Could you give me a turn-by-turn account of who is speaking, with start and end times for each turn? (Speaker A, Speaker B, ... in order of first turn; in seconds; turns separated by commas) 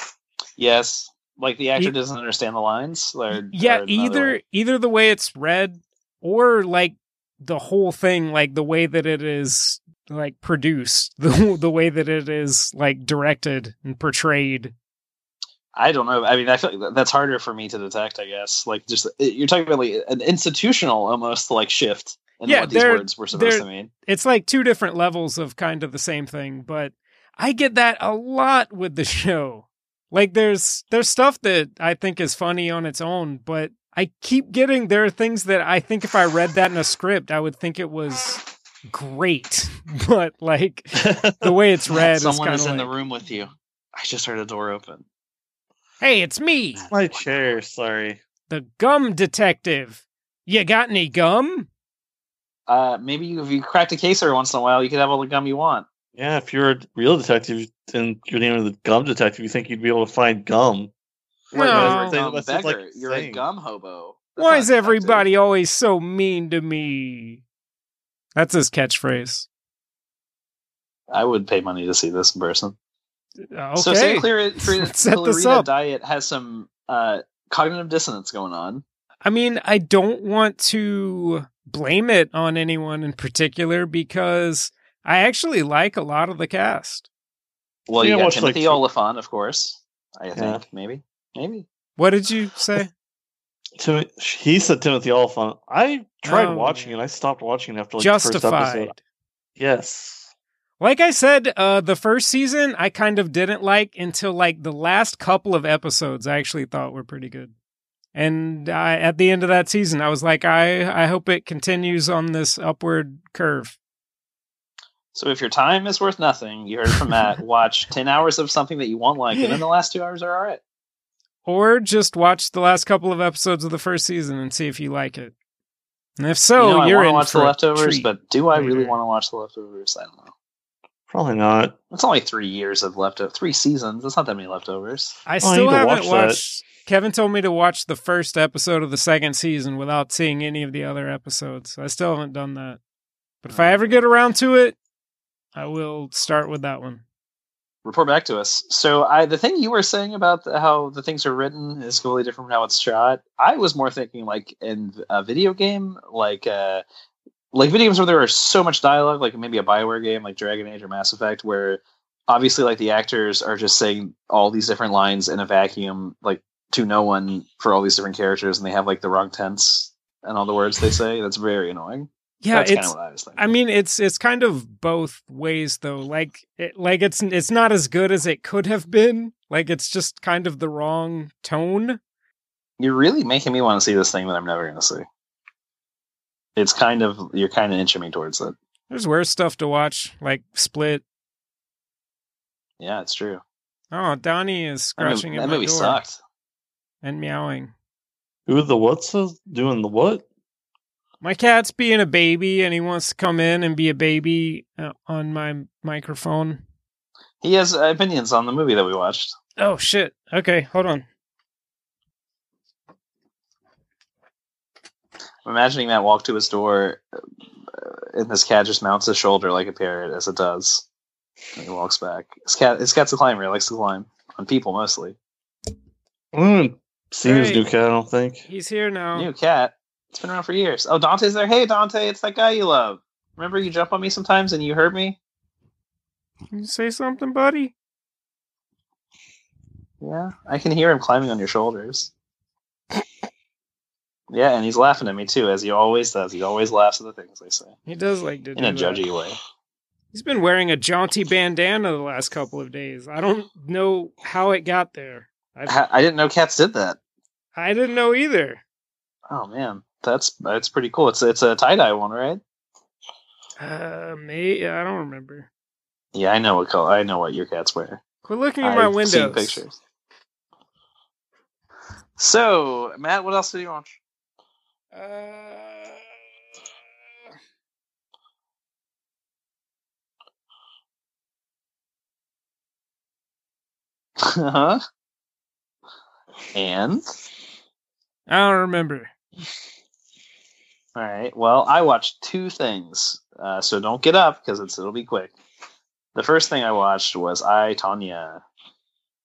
Speaker A: 0.6-4.4, Speaker B: 3.5-14.7, Speaker A: 15.8-23.9, Speaker B: 22.4-42.9, Speaker C: 41.0-41.5, Speaker A: 42.0-45.0, Speaker B: 46.0-46.9, Speaker A: 46.8-47.5, Speaker C: 46.9-48.2, Speaker B: 48.5-51.7, Speaker A: 52.7-55.9, Speaker C: 56.1-60.9, Speaker A: 61.5-65.3, Speaker B: 61.5-62.2, Speaker C: 61.6-63.4, Speaker B: 64.4-67.4, Speaker B: 68.3-69.5, Speaker A: 71.1-72.8, Speaker B: 73.5-75.7, Speaker A: 73.8-78.8, Speaker B: 79.2-87.1, Speaker A: 87.9-91.7, Speaker C: 88.0-88.8, Speaker C: 90.4-90.6, Speaker B: 92.0-92.9, Speaker C: 93.8-98.9, Speaker B: 96.2-96.9, Speaker B: 98.0-99.0, Speaker C: 99.6-100.3, Speaker B: 100.8-107.5, Speaker B: 108.2-113.8, Speaker A: 115.1-120.6, Speaker B: 119.3-119.6, Speaker B: 121.5-125.3, Speaker B: 126.2-129.0, Speaker A: 126.6-130.3, Speaker C: 131.1-131.8, Speaker A: 131.9-135.2, Speaker B: 135.3-142.8, Speaker C: 135.4-136.4, Speaker B: 143.4-144.8, Speaker A: 143.5-144.0, Speaker B: 145.6-147.0, Speaker A: 147.8-156.8, Speaker A: 157.5-173.5, Speaker B: 172.4-182.0, Speaker A: 182.8-185.1, Speaker A: 186.6-188.6, Speaker B: 188.9-191.0, Speaker A: 192.8-193.4, Speaker B: 193.9-196.0, Speaker A: 195.0-196.2, Speaker B: 197.0-197.7, Speaker C: 198.5-200.2, Speaker B: 201.2-206.6, Speaker A: 207.4-209.3, Speaker B: 209.6-211.1, Speaker A: 215.4-217.0, Speaker A: 217.7-220.8, Speaker A: 221.6-225.2, Speaker C: 226.3-228.4, Speaker B: 227.2-227.7, Speaker B: 228.5-229.3, Speaker A: 229.2-235.2, Speaker B: 236.5-237.7, Speaker A: 240.0-242.1, Speaker A: 244.3-247.8, Speaker B: 247.9-249.0, Speaker A: 248.6-249.4, Speaker B: 250.1-255.8, Speaker A: 255.7-257.0, Speaker B: 257.6-258.6, Speaker A: 259.3-262.4, Speaker B: 263.6-265.5, Speaker A: 266.1-268.0, Speaker B: 268.2-269.6, Speaker A: 268.6-269.8, Speaker A: 272.2-274.0, Speaker B: 274.9-276.1, Speaker A: 284.2-284.8, Speaker A: 286.5-287.0, Speaker B: 288.3-289.1, Speaker A: 290.9-295.3, Speaker A: 296.1-298.4